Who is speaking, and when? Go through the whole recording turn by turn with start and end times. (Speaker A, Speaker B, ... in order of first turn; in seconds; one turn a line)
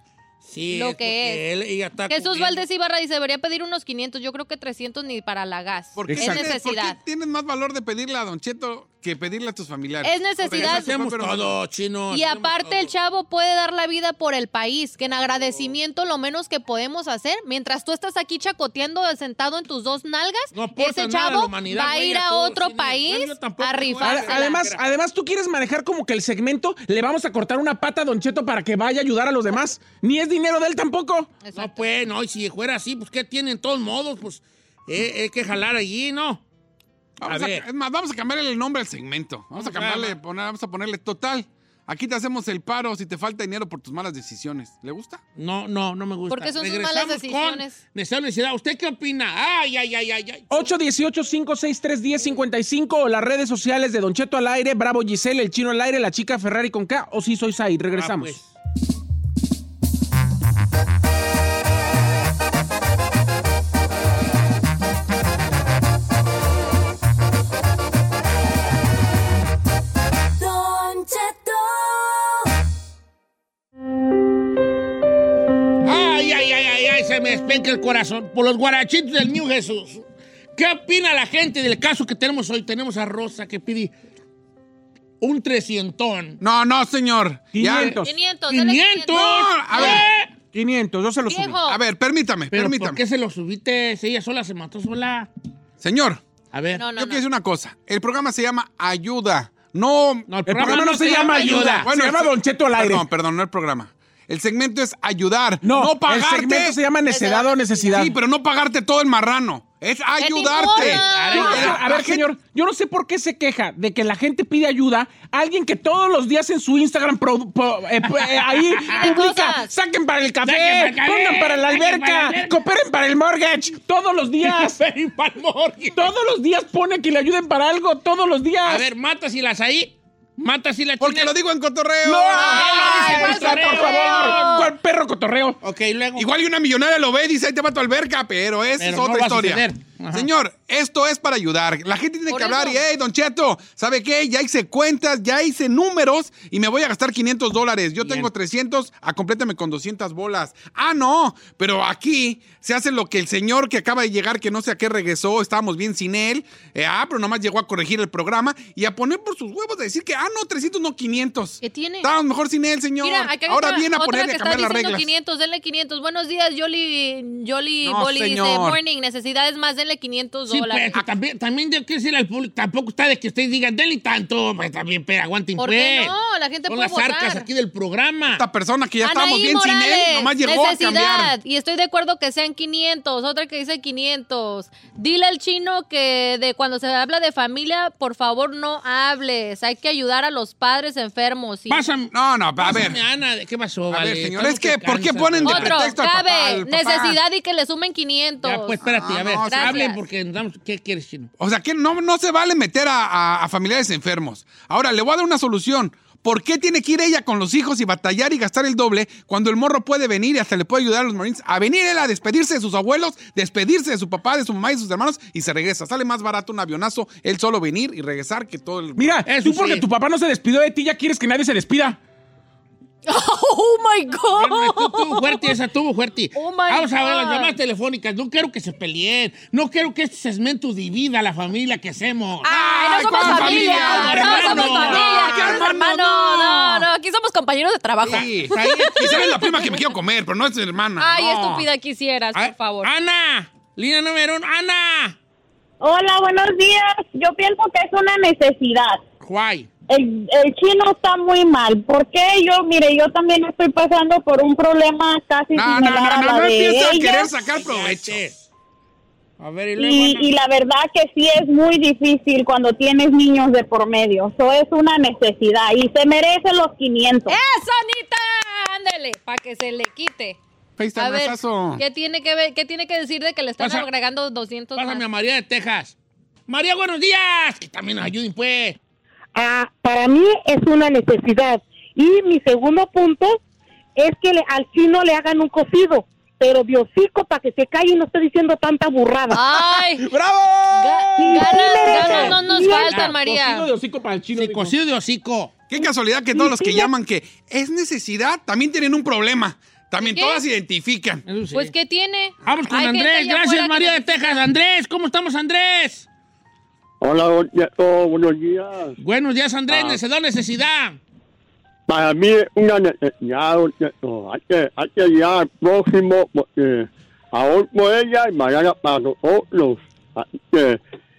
Speaker A: 0.4-2.6
Speaker B: 0.7-1.4
Speaker B: 2.1-7.0
Speaker C: 6.0-11.6
Speaker D: 6.1-6.5
Speaker B: 10.0-10.9
Speaker A: 10.5-12.9
Speaker B: 12.1-24.6
Speaker A: 15.2-15.7
Speaker A: 20.5-24.8
Speaker D: 24.0-31.3
Speaker B: 31.4-31.8
Speaker A: 31.5-36.4
Speaker C: 37.2-45.2
Speaker A: 37.2-37.6
Speaker A: 39.5-40.2
Speaker A: 45.4-50.7
Speaker B: 46.3-47.8
Speaker D: 50.5-58.4
Speaker A: 57.9-58.5
Speaker E: 70.3-72.4
Speaker A: 75.8-80.0
Speaker A: 80.5-83.9
Speaker A: 85.2-86.4
Speaker C: 86.4-88.0
Speaker D: 87.5-88.1
Speaker B: 88.0-90.1
Speaker A: 88.5-90.3
Speaker C: 89.1-90.0
Speaker D: 90.5-91.6
Speaker B: 91.3-91.8
Speaker C: 91.6-93.0
Speaker A: 92.5-95.3
Speaker C: 95.8-96.2
Speaker A: 96.5-96.8
Speaker B: 96.8-97.2
Speaker C: 97.0-100.3
Speaker A: 100.3-101.9
Speaker D: 100.5-103.0
Speaker B: 101.1-101.7
Speaker C: 101.3-106.8
Speaker D: 105.6-108.1
Speaker B: 107.0-108.1
Speaker C: 107.9-112.3
Speaker B: 110.2-111.7
Speaker A: 110.4-112.0
Speaker D: 111.3-124.8
Speaker A: 118.2-119.1
Speaker B: 118.9-119.7
Speaker A: 120.4-122.6
Speaker A: 124.4-126.1
Speaker D: 125.9-128.9
Speaker A: 128.6-131.3
Speaker C: 131.0-132.7
Speaker D: 132.0-135.6
Speaker A: 132.3-134.6
Speaker B: 132.3-134.7
Speaker A: 135.6-136.3
Speaker C: 136.2-165.1
Speaker A: 138.8-140.3
Speaker B: 142.3-142.8
Speaker A: 148.0-148.3
Speaker B: 161.6-162.1
Speaker B: 163.0-171.0
Speaker C: 167.8-168.8
Speaker A: 170.5-176.1
Speaker B: 175.6-177.5
Speaker A: 176.7-178.4
Speaker C: 178.3-181.3
Speaker B: 179.0-191.9
Speaker A: 191.7-195.8
Speaker C: 192.1-193.0
Speaker C: 193.9-197.2
Speaker B: 195.4-198.8
Speaker A: 198.4-201.3
Speaker C: 198.8-199.9
Speaker B: 199.5-200.0
Speaker C: 201.4-219.1
Speaker D: 219.0-222.0
Speaker A: 219.2-219.8
Speaker B: 223.1-225.6
Speaker A: 224.3-232.5
Speaker B: 226.3-227.5
Speaker C: 232.4-236.8
Speaker B: 232.4-239.7
Speaker A: 233.2-235.7
Speaker D: 234.2-234.5
Speaker A: 238.0-239.5
Speaker C: 238.0-241.7
Speaker B: 241.0-242.9
Speaker A: 242.3-245.2
Speaker F: 245.8-249.0
Speaker A: 249.2-249.7
Speaker F: 249.9-257.3
Speaker C: 255.5-258.2
Speaker A: 257.4-258.4
Speaker A: 259.4-260.3
Speaker F: 259.8-267.4
Speaker B: 267.3-270.4
Speaker C: 270.8-271.8
Speaker B: 270.9-275.0
Speaker A: 274.7-275.9
Speaker A: 276.5-278.8
Speaker G: 279.3-283.4
Speaker G: 283.9-289.6
Speaker B: 289.3-290.1
Speaker D: 290.0-294.8
Speaker B: 290.7-293.7
Speaker G: 291.1-292.9
Speaker A: 291.9-293.1
Speaker A: 294.3-295.6
Speaker C: 295.7-301.2
Speaker G: 296.3-296.9
Speaker B: 300.0-300.4
Speaker A: 301.3-301.7
Speaker B: 301.5-304.4
Speaker A: 302.4-306.1
Speaker H: 307.0-308.9
Speaker A: 309.0-311.0
Speaker H: 309.7-310.0
Speaker H: 311.9-320.8